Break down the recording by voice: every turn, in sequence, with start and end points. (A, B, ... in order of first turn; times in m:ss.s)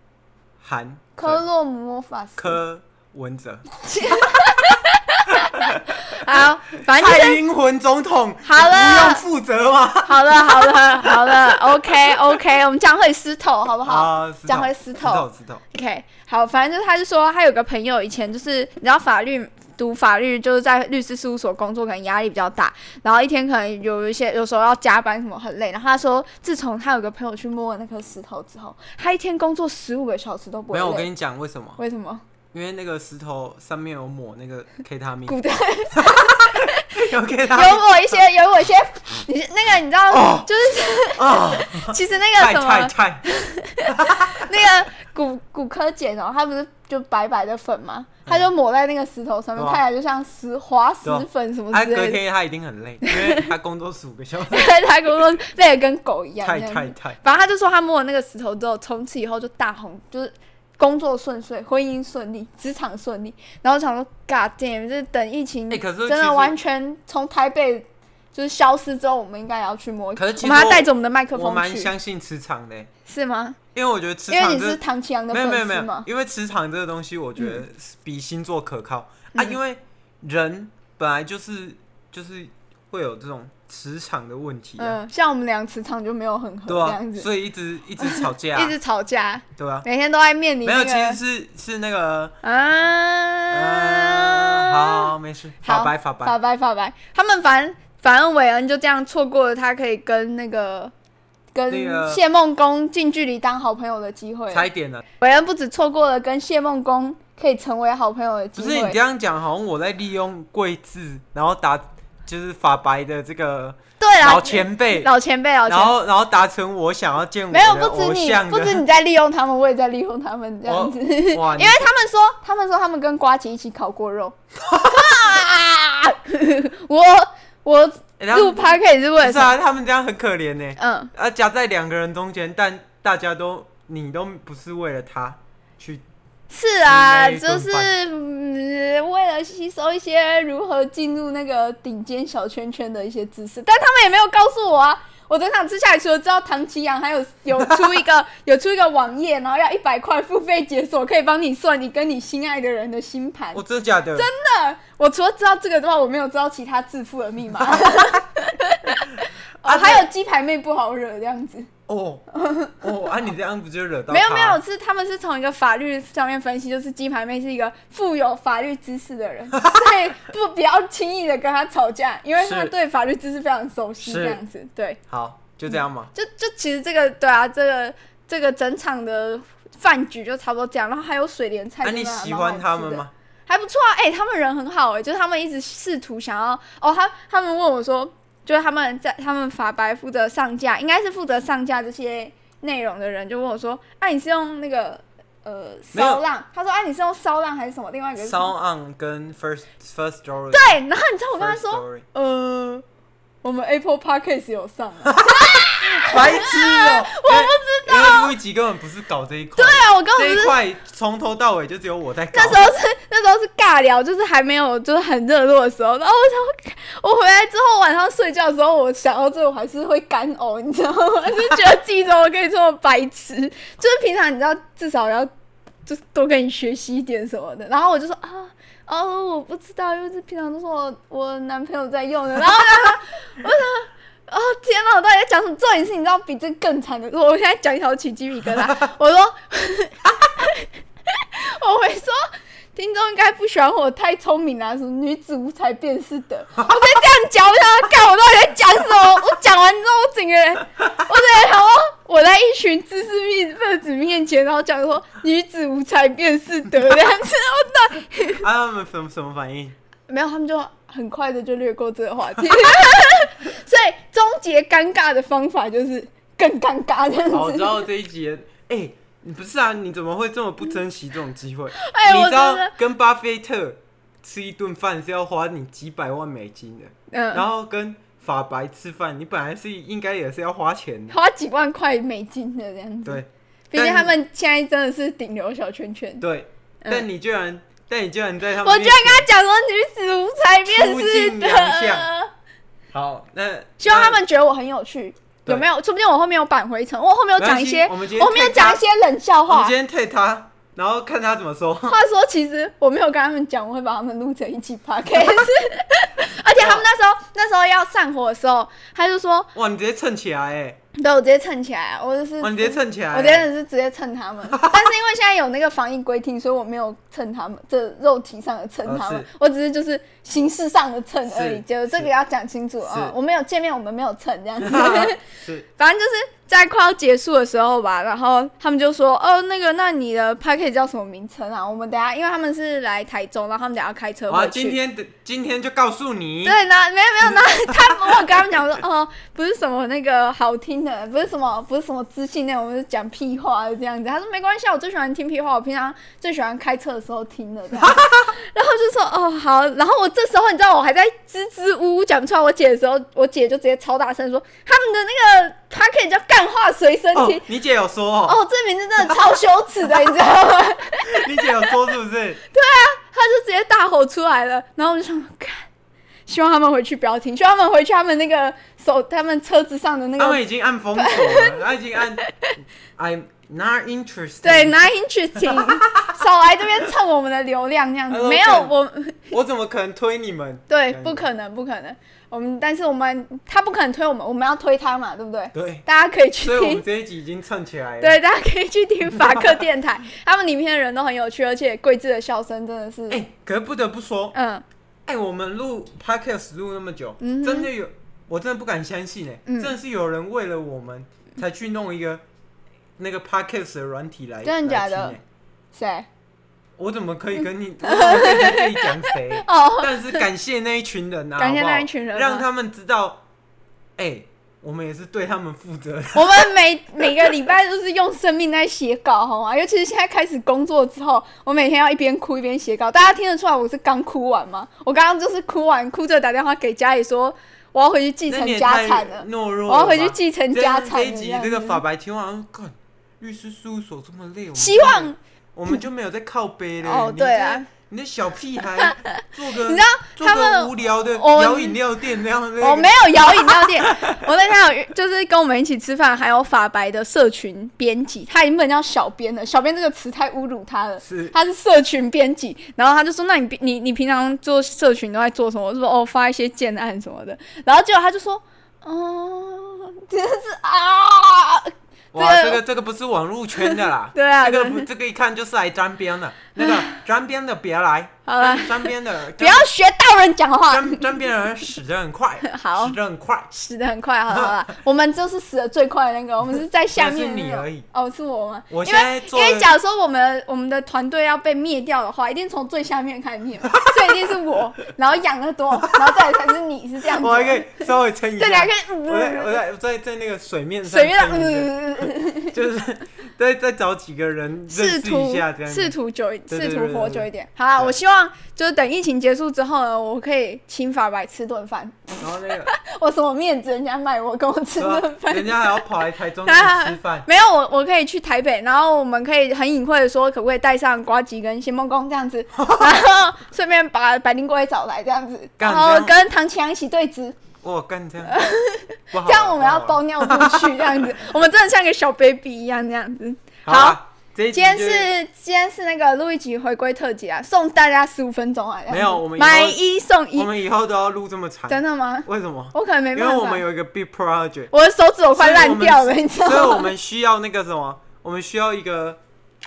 0:00.6-0:01.4 A
0:01.2-0:02.6 B
0:02.4-0:04.6 A
0:03.8-0:07.4 B
0:05.3-0:12.3 A
0:08.4-0:09.2 B
0:10.0-0:31.1 B
0:13.9-0:15.6 A
0:30.7-0:31.8 A
0:31.8-0:32.2 B
0:32.5-0:35.4 A
0:35.3-0:37.0 B
0:35.9-0:38.0 A
0:37.5-0:52.2 B
0:40.1-0:43.3 A
0:43.8-0:44.4 A
0:49.6-0:49.8 A
0:51.0-0:54.7 A
0:53.0-0:53.4 B
0:54.5-1:11.9 B
0:56.4-0:57.2 A
1:05.7-1:06.6 A
1:10.2-1:12.9 A
1:13.1-1:13.6 B
1:13.7-1:14.8 A
1:14.3-1:16.1 B
1:15.3-1:25.0 A
1:24.8-1:27.3 B
1:26.7-1:28.8 A
1:28.0-1:31.2 B
1:29.6-1:29.9 A
1:30.6-1:32.4 A
1:32.4-1:40.9 B
1:33.5-1:36.4 A
1:41.5-1:44.7 B
1:41.7-1:42.2 A
1:44.5-1:45.0 A
1:45.2-1:49.0 B
1:48.6-1:55.1 A
1:54.0-1:55.9 B
1:55.7-1:58.8 A
1:57.5-2:09.6 B
2:00.6-2:01.9 A
2:04.6-2:05.2 A
2:08.2-2:08.7 A
2:09.2-2:16.0 A
2:10.8-2:11.1 B
2:16.5-2:33.6 B
2:16.8-2:17.9 A
2:27.6-2:27.9 A
2:33.5-2:34.3 A
2:34.2-2:41.7 B
2:37.6-2:38.2 A
2:39.6-2:40.1 A
2:41.9-2:42.2 A
2:42.3-2:42.8 B
2:42.8-2:44.6 A
2:44.1-2:55.0 B
2:52.4-2:52.7 A
2:54.0-2:54.4 A
2:55.1-2:56.1 A
2:55.7-3:18.5 B
3:01.8-3:03.1 A
3:15.9-3:16.2 A
3:18.2-3:20.8 A
3:20.5-3:22.8 B
3:21.4-3:22.1 A
3:23.4-3:28.3 B
3:25.1-3:32.7 A
3:29.6-3:30.6 B
3:32.3-3:45.3 B
3:45.9-4:02.2 B
4:02.8-4:18.4 B
4:18.4-4:19.8 A
4:20.1-4:27.8 B
4:27.3-4:41.2 A
4:31.8-4:32.7 B
4:37.1-4:37.4 B
4:41.1-4:46.2 B
4:43.0-4:44.2 A
4:46.2-4:49.3 A
4:48.6-4:52.3 B
4:50.7-4:52.1 A
4:52.9-4:54.2 A
4:53.8-4:59.7 B
4:57.4-4:58.8 A
4:59.5-5:02.0 A
5:01.9-5:09.5 B
5:06.6-5:06.8 A
5:09.6-5:10.8 A
5:10.9-5:25.2 B
5:12.4-5:13.5 A
5:14.5-5:14.9 A
5:18.8-5:19.3 A
5:21.3-5:22.1 A
5:22.8-5:23.2 A
5:24.6-5:25.7 A
5:25.8-5:34.8 B
5:34.3-5:36.6 A
5:36.4-5:57.4 B
5:37.3-5:38.4 A
5:47.8-5:48.4 A
5:57.1-5:58.4 A
5:58.3-6:01.8 B
6:01.0-6:02.4 A
6:02.5-6:05.7 B
6:06.3-6:10.4 B
6:10.2-6:14.8 A
6:11.0-6:11.6 B
6:14.4-6:19.3 B
6:15.4-6:16.2 A
6:18.1-6:18.7 A
6:19.3-6:21.2 A
6:20.7-6:26.8 B
6:25.5-6:25.8 A
6:26.4-6:28.2 A
6:28.0-6:33.2 B
6:29.1-6:29.6 A
6:33.1-6:34.4 A
6:34.3-6:34.6 B
6:35.1-6:42.2 A
6:37.2-6:37.7 B
6:39.5-6:39.7 B
6:43.0-6:45.2 A
6:44.4-6:45.2 B
6:45.7-6:46.1 B
6:46.8-6:53.2 A
6:47.8-6:50.2 B
6:51.4-6:52.5 B
6:54.0-6:56.5 A
6:56.1-7:11.8 B
7:08.3-7:24.2 A
7:14.6-7:15.2 B
7:16.8-7:17.7 B
7:18.9-7:21.8 B
7:22.6-7:42.6 B
7:31.0-7:31.3 A
7:42.1-7:49.7 A
7:43.6-7:44.9 B
7:46.6-7:46.9 B
7:48.3-7:51.0 B
7:50.7-7:53.5 A
7:52.4-7:53.0 B
7:53.5-8:09.6 B
7:56.9-7:57.9 A
7:58.7-7:59.7 A
8:05.8-8:06.2 A
8:07.1-8:16.0 A
8:10.9-8:12.6 B
8:14.7-8:22.2 B
8:16.5-8:17.9 A
8:22.2-8:22.7 A
8:22.7-8:25.8 B
8:24.8-8:27.3 A
8:26.4-8:37.4 B
8:32.6-8:33.0 A
8:35.6-8:36.2 A
8:37.6-8:38.4 A
8:38.3-8:44.0 B
8:39.1-8:41.0 A
8:43.7-8:45.1 A
8:44.5-8:50.5 B
8:48.9-8:49.8 A
8:50.4-8:54.7 A
8:51.7-8:53.6 B
8:54.7-8:56.9 B
8:55.4-8:59.2 A